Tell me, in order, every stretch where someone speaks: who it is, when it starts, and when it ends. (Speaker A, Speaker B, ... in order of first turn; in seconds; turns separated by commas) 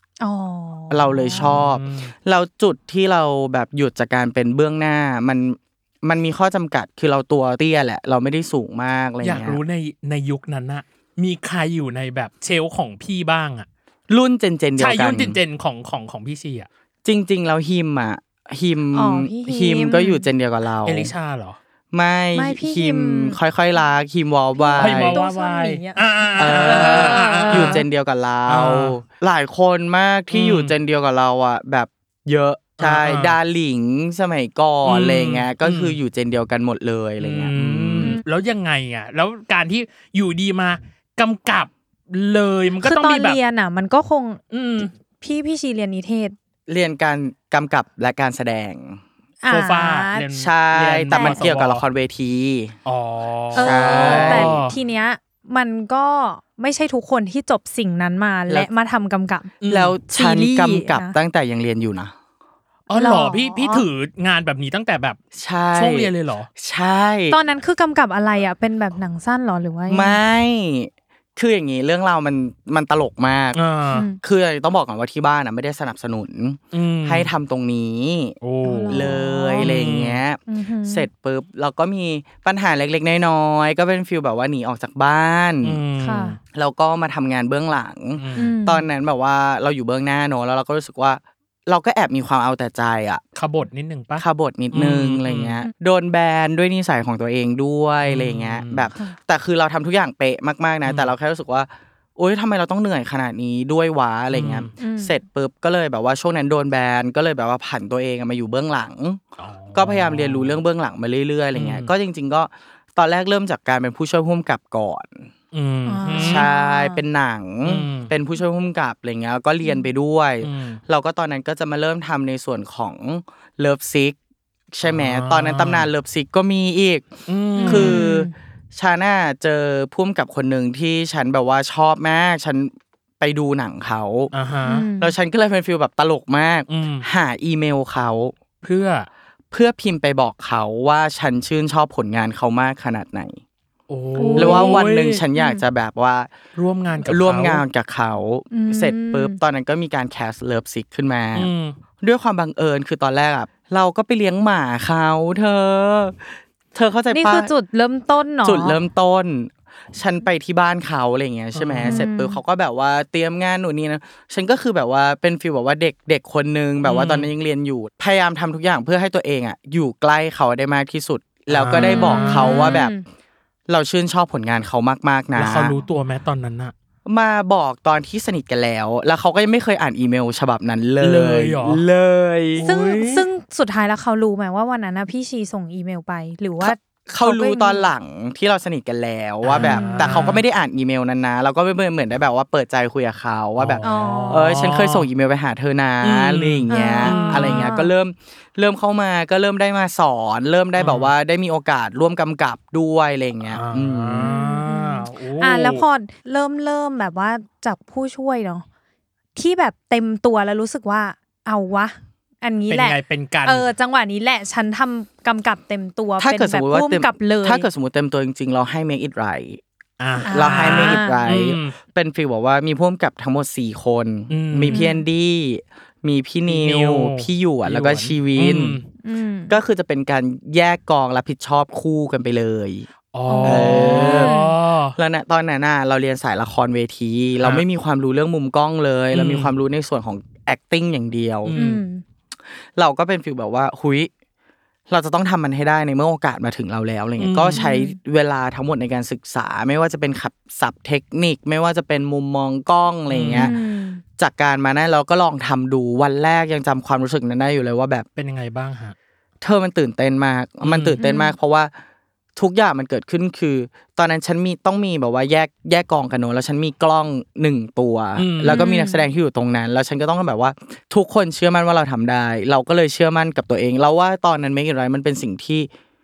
Speaker A: 0.2-1.6, Speaker B: 0.9-9.6, Speaker C: 1.3-2.1, Speaker C: 9.2-13.7, Speaker B: 14.1-15.4, Speaker C: 14.8-16.7, Speaker B: 17.1-21.1, Speaker A: 18.9-20.2, Speaker C: 20.9-21.6, Speaker B: 21.9-25.2, Speaker A: 22.4-23.4, Speaker A: 24.6-27.8, Speaker C: 24.8-27.8, Speaker B: 26.4-38.2, Speaker C: 28.5-29.0, Speaker C: 30.3-30.7, Speaker C: 32.8-33.4, Speaker C: 34.9-36.0, Speaker C: 37.2-43.4, Speaker A: 42.8-44.4, Speaker C: 44.5-44.9, Speaker A: 45.2-46.4, Speaker B: 46.7-49.0, Speaker A: 49.4-50.3, Speaker C: 49.5-51.8, Speaker B: 50.3-52.8, Speaker A: 51.1-51.4, Speaker C: 52.9-54.8, Speaker B: 53.5-54.6, Speaker A: 53.5-59.5, Speaker C: 59.6-60.0, Speaker B: 59.7-62.1, Speaker A: 60.1-61.1, Speaker C: 62.9-65.2, Speaker A: 63.0-63.9, Speaker B: 65.3-67.4, Speaker C: 65.7-66.5, Speaker A: 67.3-70.2, Speaker B: 69.9-78.4, Speaker C: 73.5-74.1, Speaker A: 73.9-74.2, Speaker C: 76.7-77.3, Speaker C: 78.4-79.0, Speaker A: 78.6-79.7, Speaker B: 78.9-85.8, Speaker C: 79.6-80.2, Speaker A: 80.5-81.1, Speaker C: 85.6-86.4, Speaker A: 86.0-86.4, Speaker B: 86.5-93.2, Speaker C: 88.2-88.5, Speaker A: 88.4-88.9, Speaker C: 93.4-95.6, Speaker B: 94.2-109.2, Speaker C: 98.0-98.9, Speaker C: 100.8-101.1, Speaker C: 104.3-104.7, Speaker A: 104.8-105.2, Speaker C: 109.4-110.6, Speaker B: 109.8-115.3, Speaker C: 111.5-111.9, Speaker C: 115.5-116.5, Speaker A: 115.9-117.0, Speaker B: 116.1-124.2, Speaker C: 117.7-118.1, Speaker C: 120.4-120.8, Speaker B: 124.7-127.1, Speaker C: 124.8-125.9, Speaker C: 127.3-128.0, Speaker A: 127.6-128.3, Speaker B: 127.6-134.3, Speaker C: 134.3-134.9, Speaker A: 134.7-135.1, Speaker B: 135.0-138.4, Speaker C: 136.7-137.1, Speaker C: 138.6-139.1, Speaker B: 139.5-143.4, Speaker C: 143.9-145.2, Speaker A: 144.2-144.8, Speaker B: 144.3-146.3, Speaker A: 145.3-145.6, Speaker C: 146.6-147.7, Speaker B: 147.0-151.5, Speaker A: 148.5-149.4, Speaker C: 151.3-151.7, Speaker B: 152.0-156.2, Speaker B: 156.7-157.5, Speaker A: 157.1-158.8, Speaker B: 158.4-172.9, Speaker C: 161.5-162.0, Speaker A: 161.8-162.4, Speaker C: 166.8-167.3, Speaker C: 171.5-172.8, Speaker A: 171.8-173.0, Speaker B: 173.7-175.8, Speaker C: 175.3-176.7, Speaker B: 177.1-182.7, Speaker C: 181.0-181.8, Speaker C: 182.6-183.2, Speaker A: 182.6-187.9, Speaker B: 186.6-204.3, Speaker C: 189.4-190.4, Speaker A: 189.6-190.3, Speaker C: 193.6-195.1, Speaker A: 193.8-194.5, Speaker C: 196.0-197.7, Speaker A: 196.7-197.9, Speaker C: 200.8-201.1, Speaker C: 203.5-205.8, Speaker A: 204.2-208.7, Speaker A: 209.4-217.7, Speaker C: 212.7-213.7, Speaker B: 216.2-219.6, Speaker C: 220.0-221.8, Speaker A: 220.2-221.2, Speaker B: 220.3-228.8, Speaker C: 224.3-224.8, Speaker A: 224.7-225.0, Speaker C: 226.5-228.9, Speaker A: 229.0-229.6, Speaker B: 229.5-232.9, Speaker C: 233.1-234.9, Speaker A: 233.3-234.5, Speaker B: 233.4-234.4, Speaker B: 235.0-241.6, Speaker C: 237.4-237.7, Speaker C: 239.1-239.5, Speaker C: 241.4-241.8, Speaker A: 241.6-242.0, Speaker B: 242.8-244.1, Speaker B: 244.9-253.6, Speaker C: 247.2-247.7, Speaker A: 247.5-248.0, Speaker C: 253.1-253.5, Speaker A: 253.4-254.0, Speaker B: 254.2-258.1, Speaker C: 258.2-258.9, Speaker B: 259.4-261.7, Speaker C: 260.6-261.0, Speaker A: 261.0-261.3, Speaker B: 262.4-275.7, Speaker C: 268.2-268.6, Speaker A: 268.5-269.0